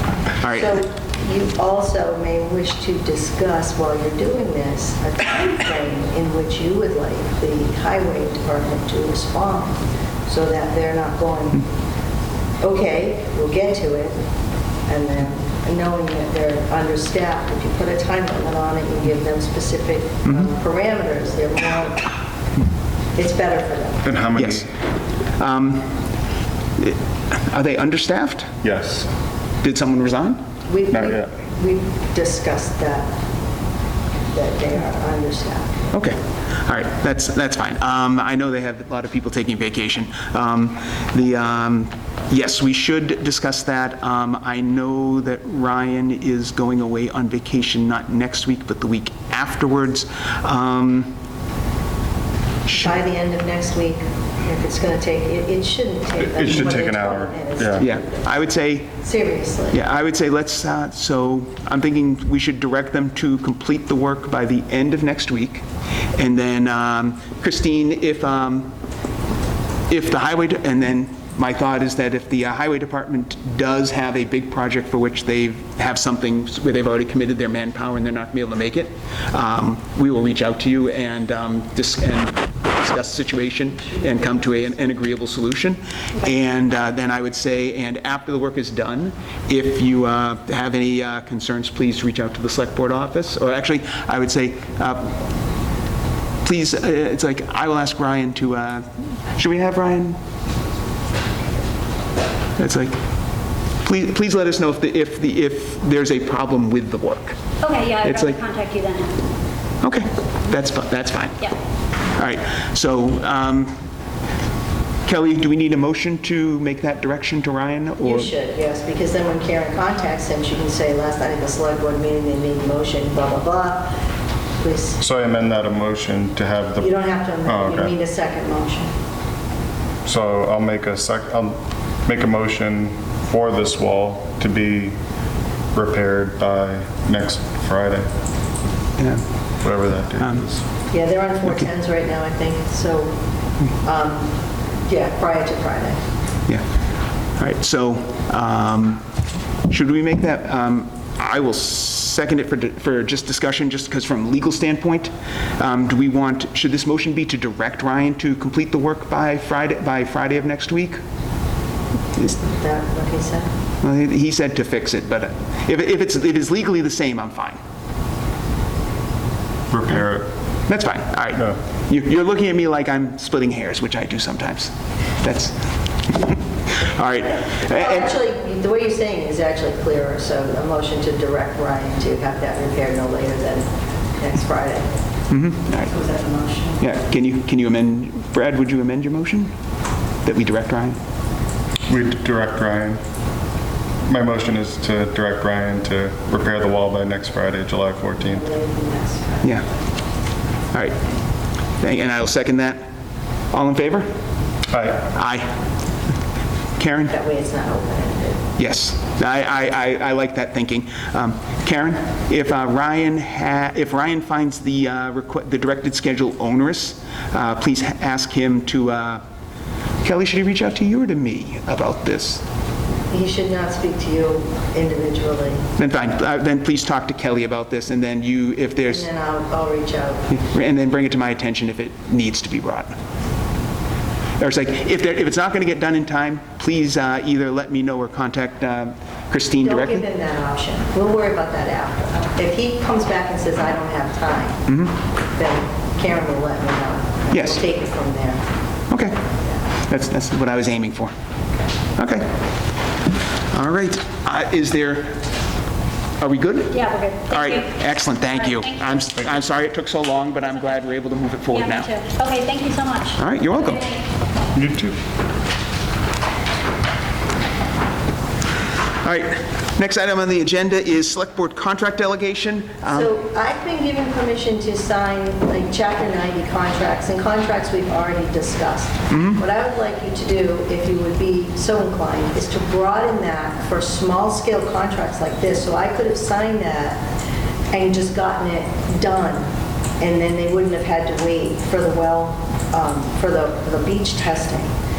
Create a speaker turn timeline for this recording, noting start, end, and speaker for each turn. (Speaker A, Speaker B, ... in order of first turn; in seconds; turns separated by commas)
Speaker A: 0.4-0.7, Speaker B: 0.5-11.7, Speaker B: 12.6-14.2, Speaker B: 14.9-22.1, Speaker B: 23.1-24.1, Speaker C: 24.0-24.7, Speaker A: 24.4-24.7, Speaker A: 25.4-26.0, Speaker A: 26.8-28.5, Speaker C: 28.6-29.1, Speaker A: 29.6-30.4, Speaker B: 30.7-33.1, Speaker C: 30.9-31.3, Speaker B: 34.3-35.7, Speaker A: 35.9-51.1, Speaker B: 52.7-58.3, Speaker C: 56.2-57.9, Speaker A: 57.8-58.9, Speaker B: 59.0-59.8, Speaker A: 59.7-65.6, Speaker A: 66.2-68.7, Speaker A: 69.9-95.1, Speaker A: 96.4-100.2, Speaker A: 102.6-103.0, Speaker A: 103.8-107.4, Speaker D: 107.6-109.2, Speaker A: 108.0-108.4, Speaker A: 109.8-111.4, Speaker A: 112.2-113.7, Speaker A: 115.1-118.3, Speaker B: 118.0-123.9, Speaker B: 124.6-125.0, Speaker C: 125.0-126.9, Speaker B: 126.8-128.9, Speaker C: 127.4-128.0, Speaker C: 130.1-135.0, Speaker C: 135.7-138.1, Speaker C: 139.6-140.7, Speaker B: 140.9-143.2, Speaker B: 143.8-144.3, Speaker B: 144.9-146.0, Speaker A: 147.4-149.0, Speaker A: 149.7-161.0, Speaker B: 162.2-163.5, Speaker A: 163.8-167.6, Speaker C: 169.7-170.3, Speaker A: 170.7-174.7, Speaker A: 175.2-175.6, Speaker A: 176.1-178.1, Speaker B: 177.6-184.9, Speaker A: 185.3-185.9, Speaker B: 185.8-186.8, Speaker A: 186.8-189.5, Speaker A: 190.2-191.0, Speaker C: 191.9-193.0, Speaker C: 194.1-198.5, Speaker B: 198.3-199.7, Speaker A: 201.8-202.9, Speaker A: 203.5-204.1, Speaker C: 204.7-205.1, Speaker A: 205.1-205.5, Speaker A: 206.8-207.1, Speaker B: 207.1-208.4, Speaker A: 208.6-219.2, Speaker A: 220.0-222.4, Speaker B: 223.1-225.7, Speaker A: 225.8-229.1, Speaker B: 228.9-230.3, Speaker A: 230.3-232.9, Speaker A: 234.4-240.0, Speaker B: 239.6-244.7, Speaker B: 245.3-248.4, Speaker A: 247.3-247.6, Speaker A: 248.9-249.2, Speaker A: 249.9-251.1, Speaker A: 252.0-252.3, Speaker A: 253.5-255.2, Speaker A: 256.2-261.9, Speaker D: 256.7-259.0, Speaker D: 261.5-264.0, Speaker A: 263.2-263.9, Speaker C: 264.5-264.9, Speaker A: 269.0-273.1, Speaker B: 272.9-287.1, Speaker A: 279.1-279.4, Speaker B: 287.7-294.7